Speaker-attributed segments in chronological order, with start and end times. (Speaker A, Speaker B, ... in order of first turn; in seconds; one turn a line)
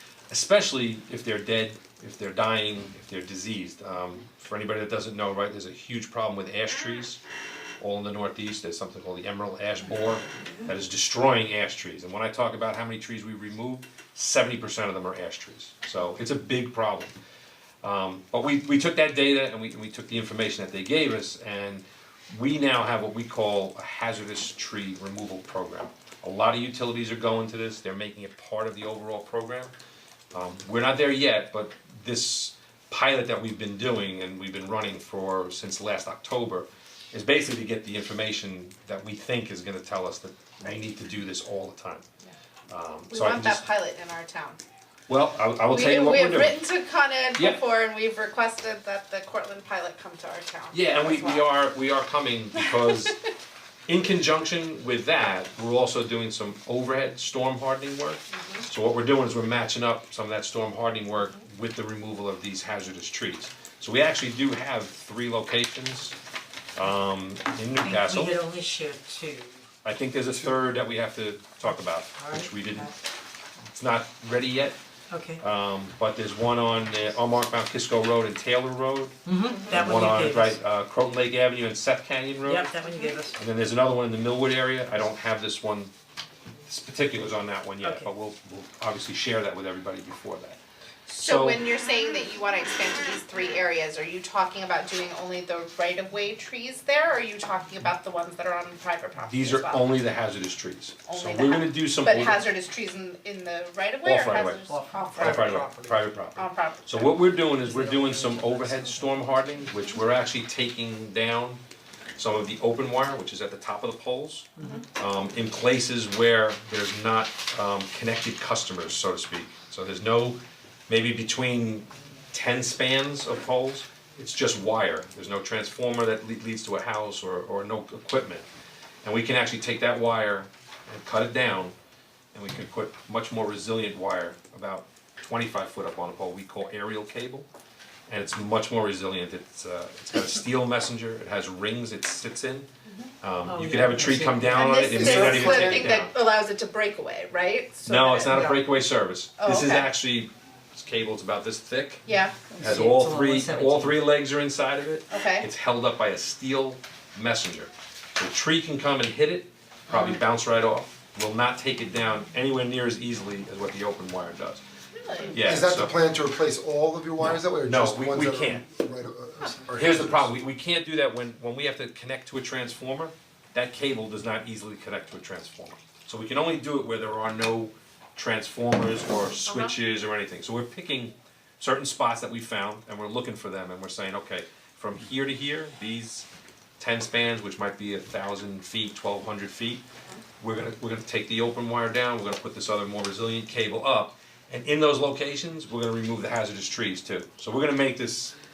Speaker A: 0.3-7.2
Speaker A: 7.8-17.1
Speaker A: 17.8-29.7
Speaker A: 30.3-42.0
Speaker A: 42.7-43.7
Speaker B: 43.1-44.6
Speaker A: 45.1-46.6
Speaker B: 45.7-51.5
Speaker A: 47.4-47.6
Speaker A: 50.7-53.2
Speaker A: 53.9-66.2
Speaker B: 58.3-58.7
Speaker A: 66.8-68.4
Speaker C: 67.8-69.6
Speaker A: 69.8-72.9
Speaker C: 72.2-72.9
Speaker A: 73.7-74.8
Speaker C: 75.1-75.4
Speaker A: 75.4-79.2
Speaker C: 79.2-80.6
Speaker A: 79.7-82.7
Speaker C: 82.5-83.4
Speaker A: 83.3-85.9
Speaker A: 86.7-91.6
Speaker C: 87.8-88.1
Speaker B: 91.1-99.9
Speaker A: 99.2-102.5
Speaker B: 101.1-105.6
Speaker A: 104.0-111.6
Speaker C: 104.6-105.5
Speaker B: 106.3-107.2
Speaker C: 107.8-108.5
Speaker A: 112.2-128.4
Speaker A: 129.0-131.7
Speaker A: 132.3-137.5
Speaker A: 138.1-142.7
Speaker A: 143.2-146.1
Speaker C: 143.4-144.8
Speaker D: 144.6-145.9
Speaker B: 144.7-148.6
Speaker A: 147.9-152.1
Speaker B: 149.4-149.9
Speaker B: 152.1-152.6
Speaker C: 152.5-154.0
Speaker A: 152.6-164.6
Speaker B: 155.1-155.4
Speaker B: 165.0-165.3
Speaker A: 165.3-166.0
Speaker D: 165.4-170.3
Speaker A: 167.3-168.7
Speaker A: 169.8-186.3
Speaker A: 186.8-189.8
Speaker A: 190.4-198.3